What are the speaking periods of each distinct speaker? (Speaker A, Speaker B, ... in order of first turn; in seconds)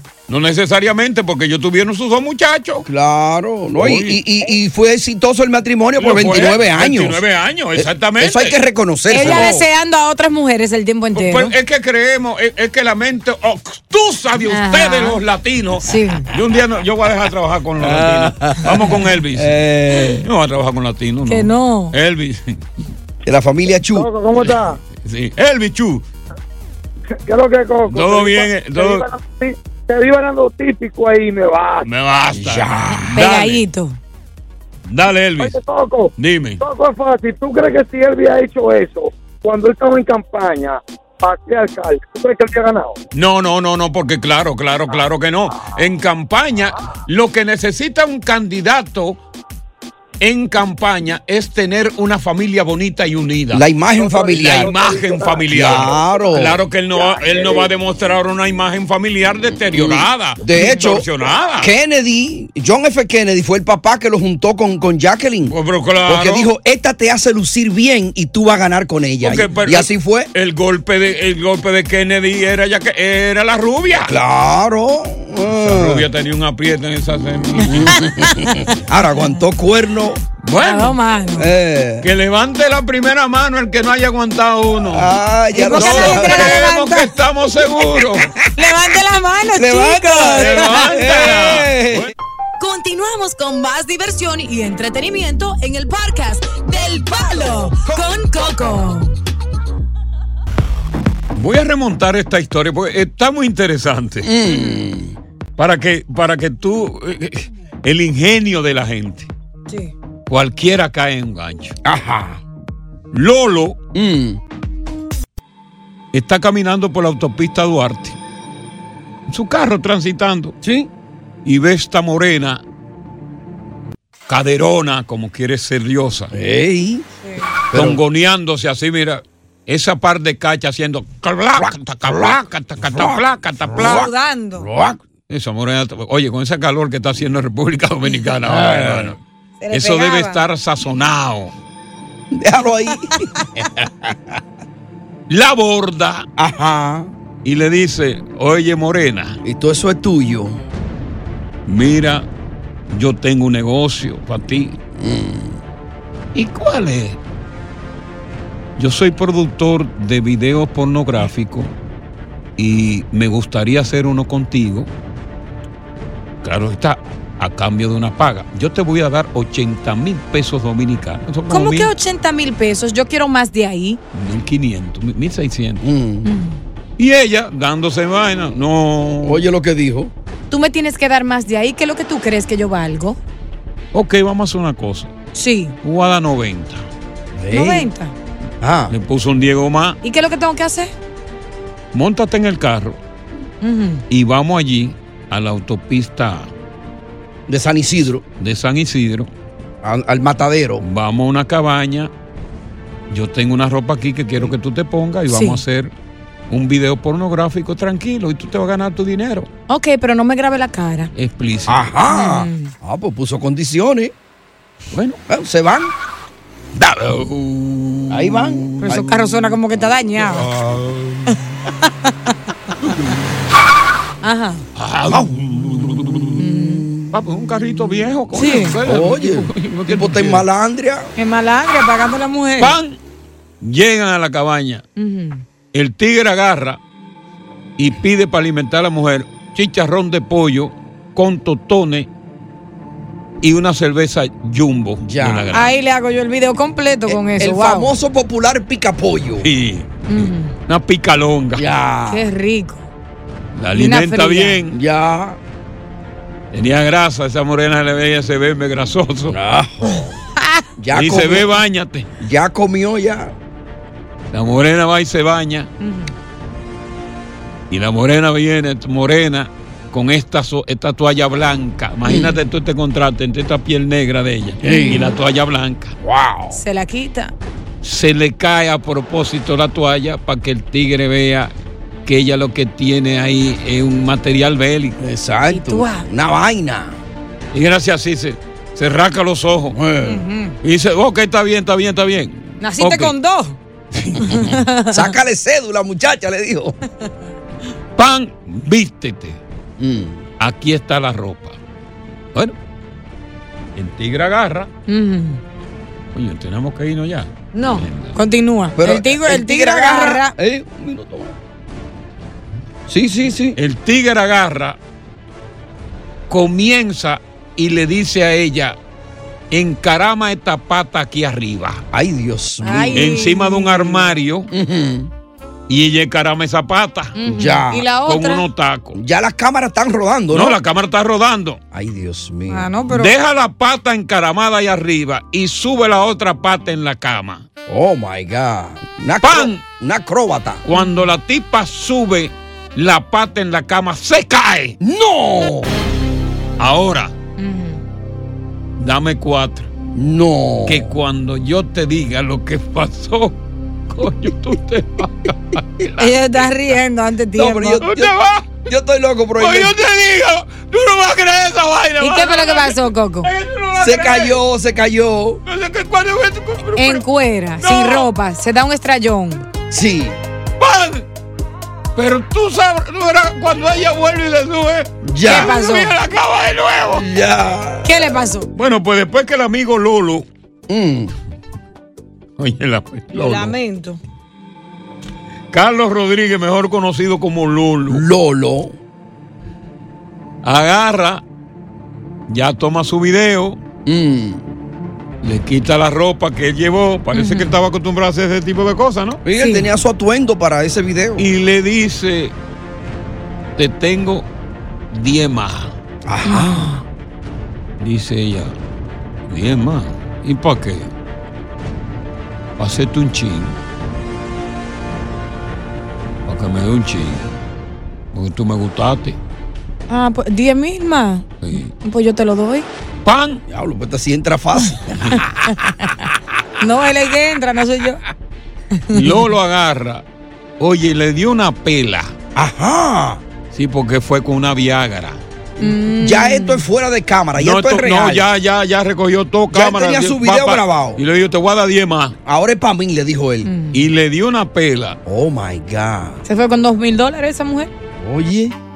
Speaker A: 0.3-2.9, 3.8-4.2, 6.0-8.6, 9.2-9.6, 11.1-22.6, 24.4-26.0, 27.9-29.1, 31.8-33.6, 34.9-35.6, 36.2-36.6, 43.1-49.2, 50.2-53.6, 54.3-61.7, 65.5-66.5, 69.2-74.1, 75.5-78.0, 80.4-81.0, 82.0-85.1, 85.7-88.4, 90.2-92.1, 101.3-104.3, 105.6-109.3, 110.3-111.8, 113.1-113.8, 116.1-118.2, 119.3-120.5, 121.4-122.6, 124.3-126.3, 127.7-134.1, 135.3-139.2, 139.7-141.5, 145.3-146.2, 147.4-149.4, 151.7-152.2, 152.9-154.8, 156.3-157.2, 158.8-161.7, 162.6-164.9, 166.4-171.9, 174.1-175.8, 177.0-179.4, 183.9-185.1, 185.8-186.8, 188.9-190.0, 191.9-193.0, 194.1-196.5, 198.4-199.3, 200.8-202.1, 203.1-205.9, 206.5-209.5, 211.1-211.9, 214.9-215.2, 216.7-218.9, 220.2-221.4, 222.8-223.1, 224.8-226.4, 227.1-230.4, 232.6-233.0, 233.6-234.8, 235.7-236.8, 237.8-242.1, 243.4-245.7, 249.4-251.7, 253.5-254.8, 256.5-259.4, 260.9-262.1, 264.3-265.7, 267.7-275.9, 277.8-281.5, 282.1-285.0, 287.5-289.8, 290.6-293.1, 293.9-294.5, 298.0-299.4, 300.4-301.6, 303.8-304.7, 306.1-308.2, 313.5-314.8, 316.3-318.8, 319.5-321.8, 322.9-324.5, 325.7-327.2, 328.0-329.0, 330.3-331.6, 332.9-337.4, 339.2-339.6, 340.6-344.8, 346.6-347.1, 348.8-349.7, 350.6-356.5, 357.8-358.6, 359.4-364.4, 365.4-367.0, 367.6-368.1, 370.6-371.1, 371.9-377.1, 378.5-380.2, 382.4-383.5, 385.5-388.0, 390.4-391.2, 392.3-393.6, 395.2-399.2, 401.2-402.3, 403.6-404.3, 404.9-405.7, 407.8-408.6, 409.3-410.9, 412.6-413.6, 416.2-417.3, 418.1-419.2, 421.4-421.7, 423.0-423.4, 428.9-430.0, 430.6-432.1, 433.5-435.2, 437.4-442.1, 443.7-445.0
Speaker B: 2.9-7.2, 7.8-9.6, 17.8-20.3, 23.2-24.1, 32.3-33.2, 53.5-54.7, 55.5-56.6, 59.7-70.3, 74.1-76.0, 77.6-80.2, 81.4-82.1, 84.9-86.6, 89.5-92.1, 104.2-105.2, 111.8-112.4, 113.9-114.4, 120.6-120.9, 126.3-127.0, 127.7-128.0, 131.6-135.0, 138.4-139.2, 142.3-144.4, 146.4-147.1, 149.4-150.6, 154.9-155.6, 175.8-176.3, 179.2-180.1, 187.3-187.9, 188.6-188.9, 197.5-198.2, 199.8-200.8, 211.7-214.1, 215.3-215.9, 218.1-219.1, 226.6-227.1, 228.8-231.1, 245.0-245.5, 247.1-249.5, 251.6-252.3, 254.7-255.4, 259.3-260.2, 260.8-261.5, 262.2-263.3, 272.0-272.4, 274.6-275.1, 276.0-276.6, 285.0-287.0, 289.7-290.2, 294.9-296.8, 299.8-300.2, 308.8-311.3, 312.9-313.6, 321.9-323.1, 324.5-325.1, 327.2-327.9, 328.9-330.6, 331.7-332.7, 337.7-340.6, 344.8-345.7, 349.9-350.9, 357.4-358.1, 358.6-359.7, 363.8-365.4, 369.7-370.2, 375.0-375.5, 376.9-378.2, 380.7-381.1, 387.9-388.7, 393.9-394.4, 399.2-401.3, 406.1-406.8, 423.5-425.2, 432.3-433.2, 435.6-438.3, 439.5-441.0, 442.2-443.5, 445.1-446.2, 448.0-448.5
Speaker C: 9.1-11.5, 14.5-15.2, 15.8-16.3, 21.2-21.9, 33.1-34.0, 60.5-60.9, 77.7-78.8, 80.6-81.5, 85.5-87.1, 88.5-91.1, 92.6-99.2, 104.4-104.8, 109.7-109.9, 133.7-134.7, 139.6-140.4, 143.1-143.4, 171.5-174.0, 176.2-176.6, 180.5-183.2, 185.3-185.7, 187.5-188.1, 190.0-190.9, 193.6-194.0, 205.3-205.6, 209.7-211.1, 212.1-212.7, 218.8-220.5, 221.3-222.3, 224.2-224.6, 226.3-226.8, 228.3-228.8, 231.2-232.8, 235.0-235.4, 245.5-247.9, 250.1-250.5, 252.1-252.9, 253.7-254.6, 259.9-260.6, 265.8-266.1, 274.7-275.1, 276.5-277.3, 285.5-286.1, 290.0-290.6, 292.6-293.6, 294.2-295.1, 304.9-305.4, 307.5-310.3, 322.6-324.1, 327.2-328.4, 332.5-333.1, 340.7-341.1, 347.4-347.8, 356.0-357.8, 362.0-363.3, 366.8-369.4, 375.2-375.9, 377.8-378.5, 383.1-384.0, 397.1-397.5, 399.4-399.7, 406.2-406.8, 419.9-422.7, 426.6-428.0, 428.7-429.2, 435.6-436.6, 443.4-443.8, 446.2-447.7
Speaker D: 23.9-24.8, 27.2-31.9, 35.4-43.0, 54.0-56.3, 56.9-57.7